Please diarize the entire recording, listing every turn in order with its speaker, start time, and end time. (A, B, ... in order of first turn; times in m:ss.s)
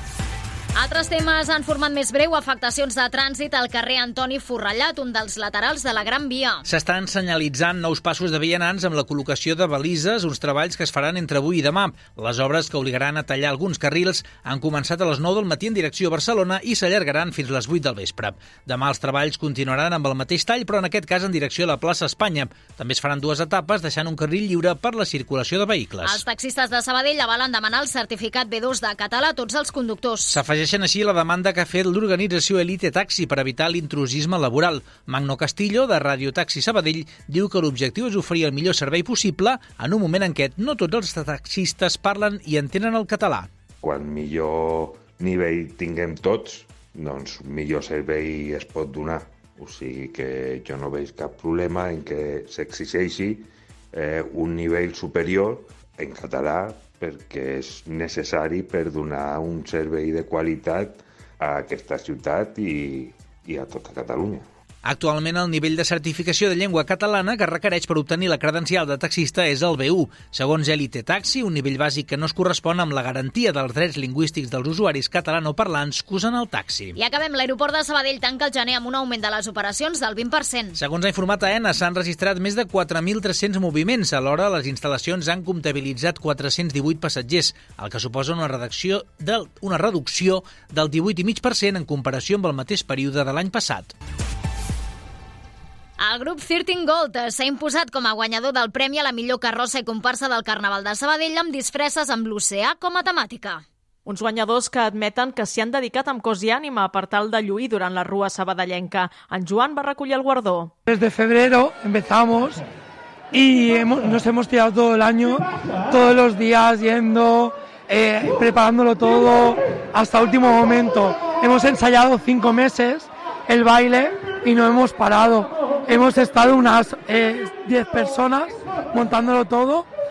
0:00.8-0:06.6 A
0:06.6-0:26.2 B
0:26.0-0:30.4 A
0:30.3-0:43.5 B
0:43.8-1:04.4 C
1:04.8-1:17.0 B
1:17.0-1:20.8 A
1:20.8-1:33.9 B
1:36.0-1:43.6 A
1:44.1-1:50.7 D
1:50.9-1:52.6 E
1:53.3-2:09.9 E